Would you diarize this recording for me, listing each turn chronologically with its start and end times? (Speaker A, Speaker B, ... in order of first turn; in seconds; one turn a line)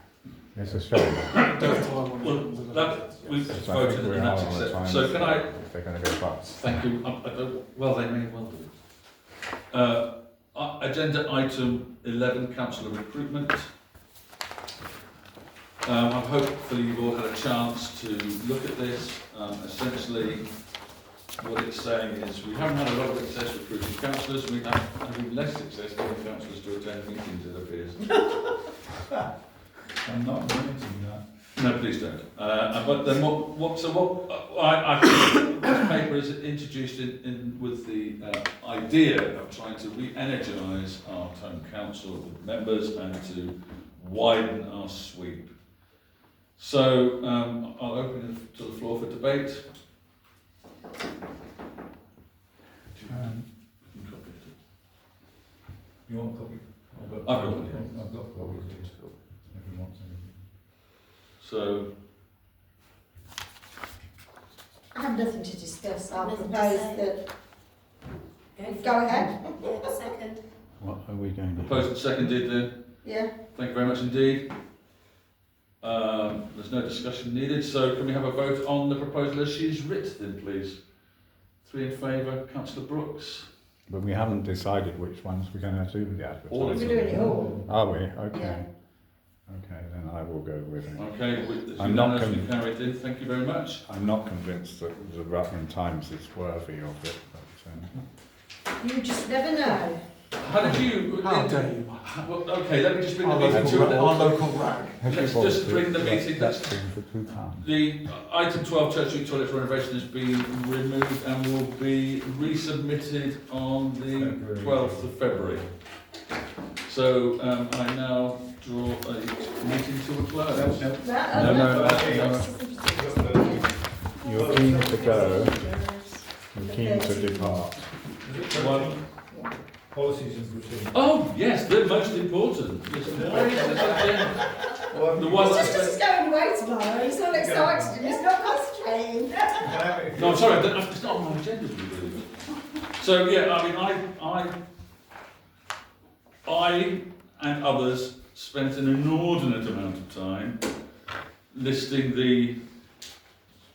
Speaker A: 0.5-1.4
Speaker B: 1.3-5.5
Speaker C: 1.4-3.6
Speaker A: 3.5-6.8
Speaker B: 6.6-8.7
Speaker B: 9.7-13.7
Speaker B: 15.8-20.5
Speaker B: 21.4-28.3
Speaker D: 30.0-31.2
Speaker B: 31.6-45.8
Speaker B: 46.6-49.7
Speaker B: 53.0-54.5
Speaker A: 53.1-53.5
Speaker D: 56.1-60.5
Speaker B: 57.2-59.2
Speaker B: 61.4-61.9
Speaker E: 64.9-67.3
Speaker F: 66.1-67.0
Speaker F: 68.6-70.4
Speaker E: 68.7-70.1
Speaker A: 70.8-71.9
Speaker B: 71.6-74.5
Speaker E: 73.0-73.3
Speaker B: 75.8-83.5
Speaker A: 83.9-88.7
Speaker B: 86.5-87.3
Speaker E: 86.7-87.6
Speaker D: 87.0-88.0
Speaker E: 88.3-88.6
Speaker A: 89.4-91.1
Speaker B: 91.0-93.8
Speaker A: 91.7-92.5
Speaker A: 93.9-97.9
Speaker E: 98.8-100.0
Speaker B: 100.3-104.5
Speaker C: 100.6-102.2
Speaker C: 103.2-105.0
Speaker A: 103.5-103.9
Speaker A: 105.0-107.7
Speaker B: 105.0-115.7
Speaker D: 114.1-115.7
Speaker B: 116.8-122.5
Speaker D: 120.5-125.5
Speaker E: 121.0-123.7
Speaker A: 121.3-122.2
Speaker A: 124.2-125.8
Speaker F: 125.0-125.7
Speaker A: 126.5-127.9
Speaker E: 126.5-127.6
Speaker D: 128.2-129.1
Speaker B: 128.5-129.0
Speaker D: 129.8-131.0
Speaker B: 130.9-136.0
Speaker D: 133.0-135.9
Speaker E: 135.3-139.6
Speaker D: 137.3-138.2
Speaker D: 139.4-140.7
Speaker B: 140.1-142.3
Speaker B: 142.9-144.5
Speaker B: 146.4-150.6
Speaker B: 151.5-152.6